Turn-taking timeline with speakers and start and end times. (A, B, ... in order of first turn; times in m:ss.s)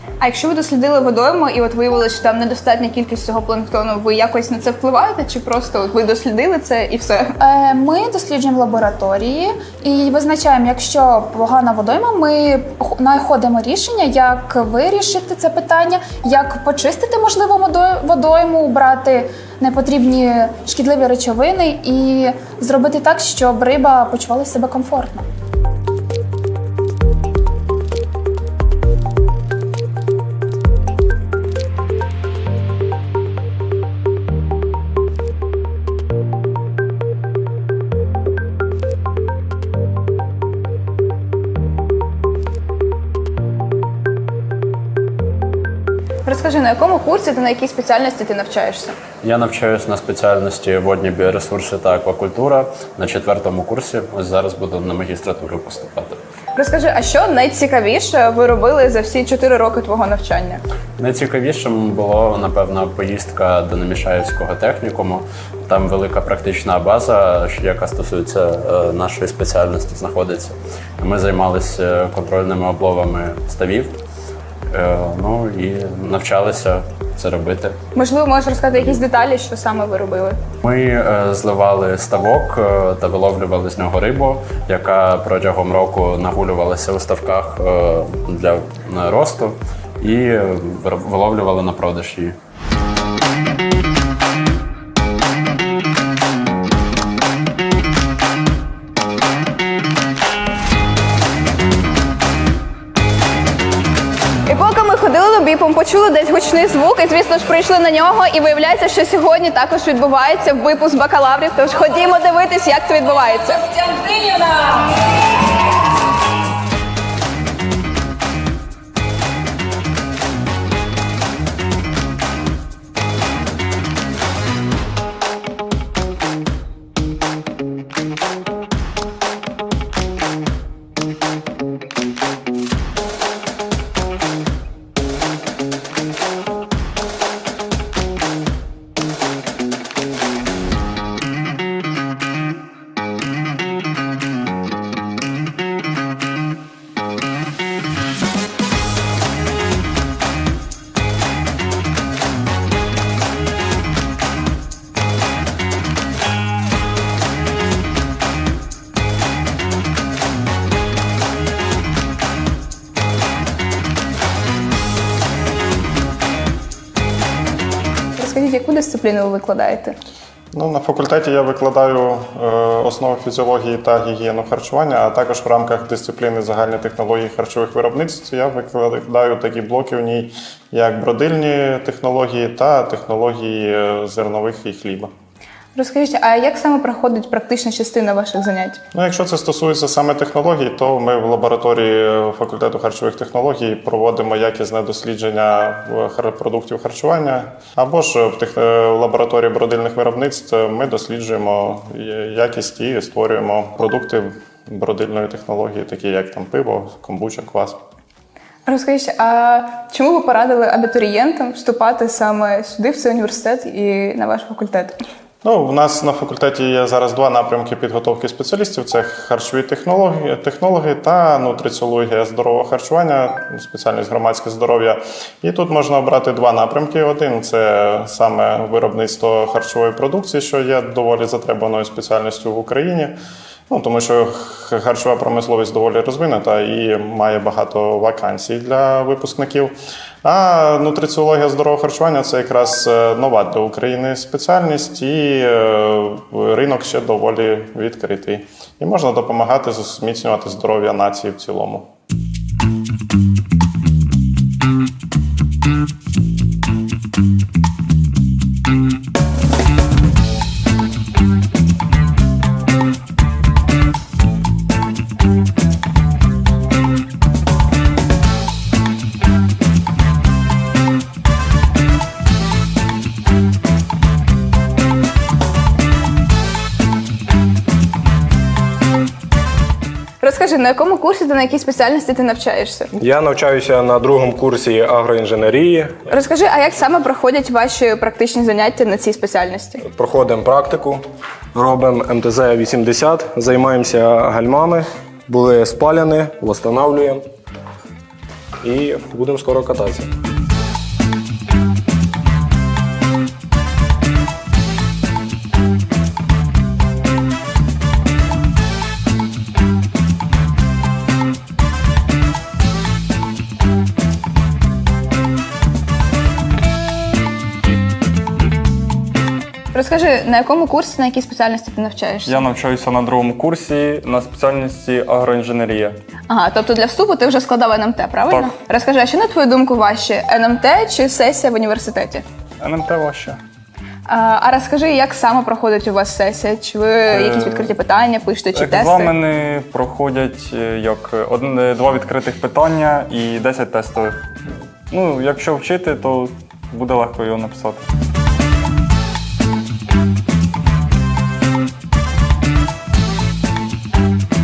0:00.2-0:07.3 A
0:07.4-0:25.2 B
0:46.2-0:48.9 A
0:49.2-0:56.2 C
0:56.6-1:00.6 A
1:01.0-1:14.0 C
1:14.7-1:17.8 C
1:17.9-1:20.4 A
1:18.7-1:19.0 C
1:20.6-1:32.4 C
1:44.5-1:54.2 A
2:48.2-2:50.0 A
2:50.5-3:05.1 D
3:05.8-3:08.8 A
3:08.9-3:27.8 D
3:28.6-3:35.0 A
3:35.4-3:53.1 D
3:53.7-4:11.9 D
4:40.2-4:42.9 A
4:42.9-4:45.9 E
4:46.1-4:49.8 A
4:49.8-4:51.0 E
4:51.5-4:57.2 E
4:58.6-5:00.1 E
5:19.7-5:22.4 A
5:22.3-5:26.0 F
5:26.3-5:32.2 A
5:32.6-5:33.4 F
5:34.1-5:39.1 A
5:37.1-5:37.7 F
5:38.5-5:44.2 F
5:44.9-5:47.9 F